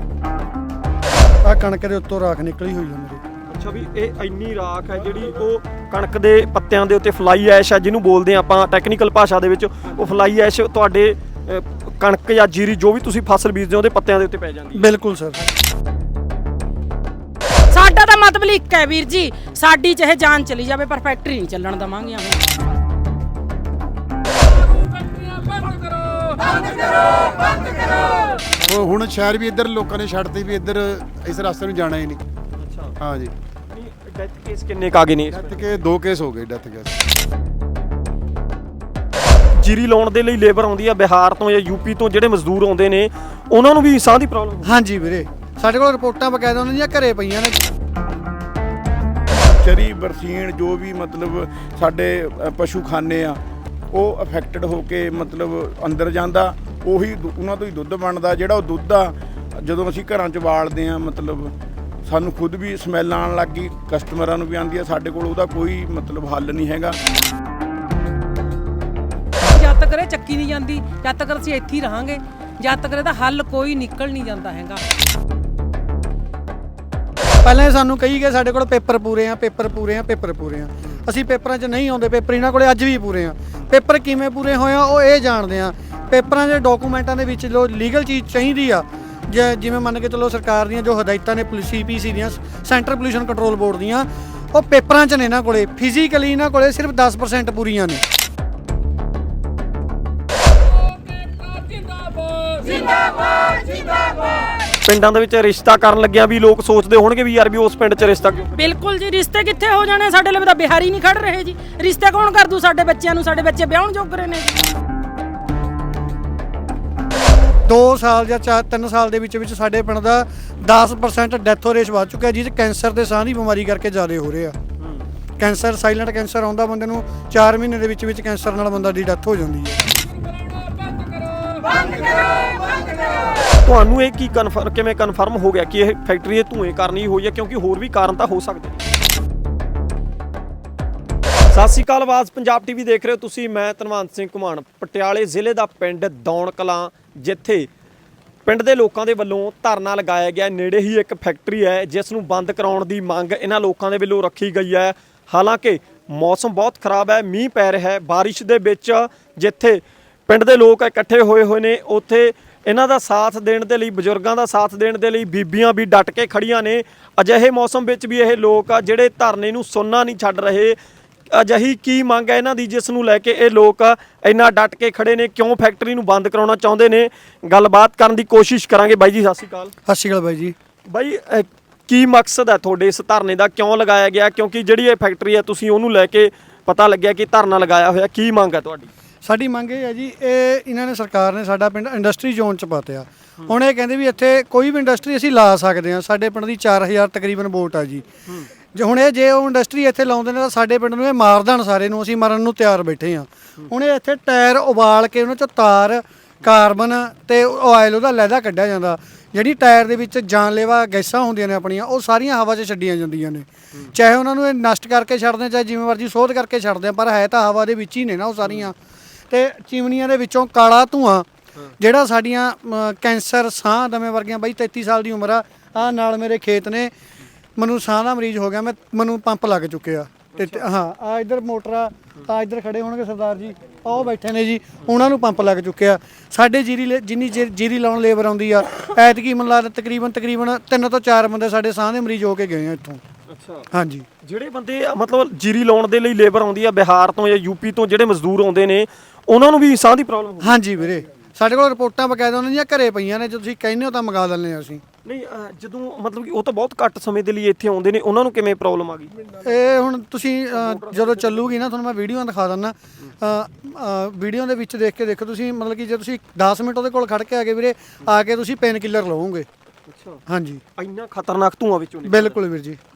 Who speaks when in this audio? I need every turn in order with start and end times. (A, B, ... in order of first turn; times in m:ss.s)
0:01.4-0:03.2 A
0:03.5-0:14.8 B
0:14.8-0:15.4 A
0:17.7-0:22.4 C
0:28.7-0:32.2 D
0:32.6-0:32.9 B
0:33.0-0:33.3 D
0:33.7-0:35.7 B
0:35.3-0:37.0 D
0:39.6-0:44.7 B
0:44.6-0:47.6 A
0:49.6-0:53.4 E
0:53.9-1:01.5 E
1:02.1-1:07.0 E
1:09.4-1:14.8 F
1:17.4-1:38.0 A
1:44.8-1:48.5 B
1:48.5-1:54.7 C
1:57.7-2:04.6 A
2:05.4-2:09.8 A
2:13.6-2:18.9 B
2:21.5-2:27.7 B
2:28.5-2:50.8 B
2:51.3-2:59.7 B
2:59.9-3:00.6 A
3:00.9-3:08.9 B
3:09.2-3:18.0 A
3:18.7-3:38.8 A
3:39.3-3:41.3 A
3:41.8-3:46.9 A
3:47.6-4:03.0 A
3:50.3-3:50.6 B
4:03.3-4:03.7 B
4:03.7-4:04.1 A
4:04.2-4:10.6 B
4:10.4-4:14.8 A
4:15.0-4:19.3 B
4:19.4-4:29.5 A
4:20.5-4:21.5 B
4:29.9-4:30.2 B
4:30.3-4:30.6 A
4:30.8-4:32.4 B
4:32.0-4:32.8 A